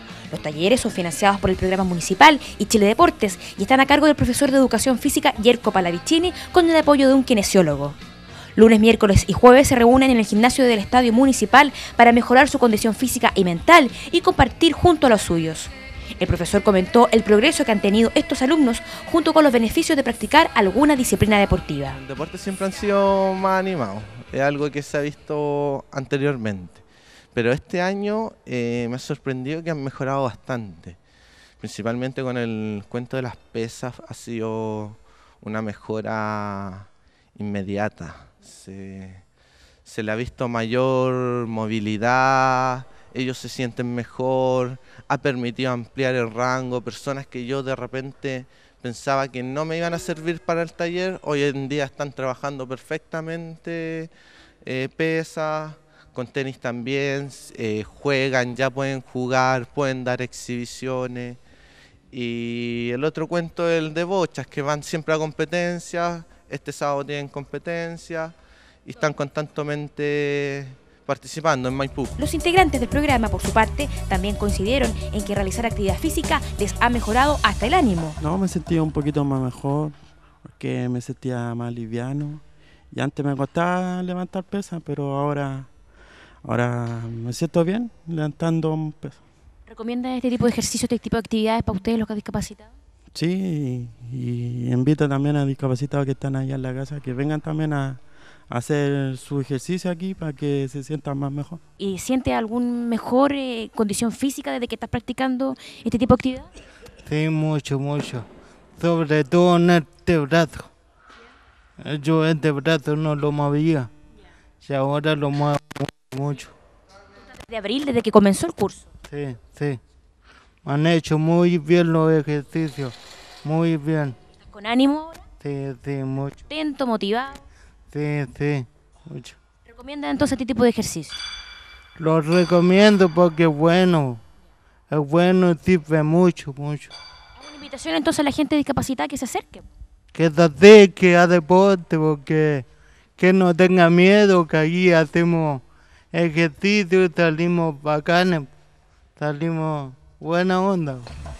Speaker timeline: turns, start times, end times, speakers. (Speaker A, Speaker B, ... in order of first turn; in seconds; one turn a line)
Speaker A: 0.3-8.0
Speaker A: 8.6-22.0
Speaker B: 21.9-31.0
Speaker B: 31.6-39.2
Speaker B: 39.8-54.1
Speaker B: 54.6-61.4
Speaker B: 62.1-72.2
Speaker A: 72.2-78.2
Speaker C: 78.2-85.7
Speaker C: 86.4-89.2
Speaker A: 89.7-92.7
Speaker C: 93.1-101.6
Speaker A: 101.8-106.5
Speaker D: 107.0-108.2
Speaker D: 108.8-110.7
Speaker D: 111.8-113.9
Speaker D: 114.6-116.5
Speaker A: 117.4-118.8
Speaker D: 119.1-119.8
Speaker D: 120.6-124.2
Speaker A: 124.4-125.2
Speaker D: 125.4-126.5
Speaker A: 126.5-127.4
Speaker D: 127.9-129.4
Speaker A: 129.7-131.2
Speaker D: 132.0-134.2
Speaker D: 134.9-136.9
Speaker A: 137.4-139.6
Speaker D: 140.1-142.7
Speaker D: 143.2-148.5
Speaker D: 149.2-151.1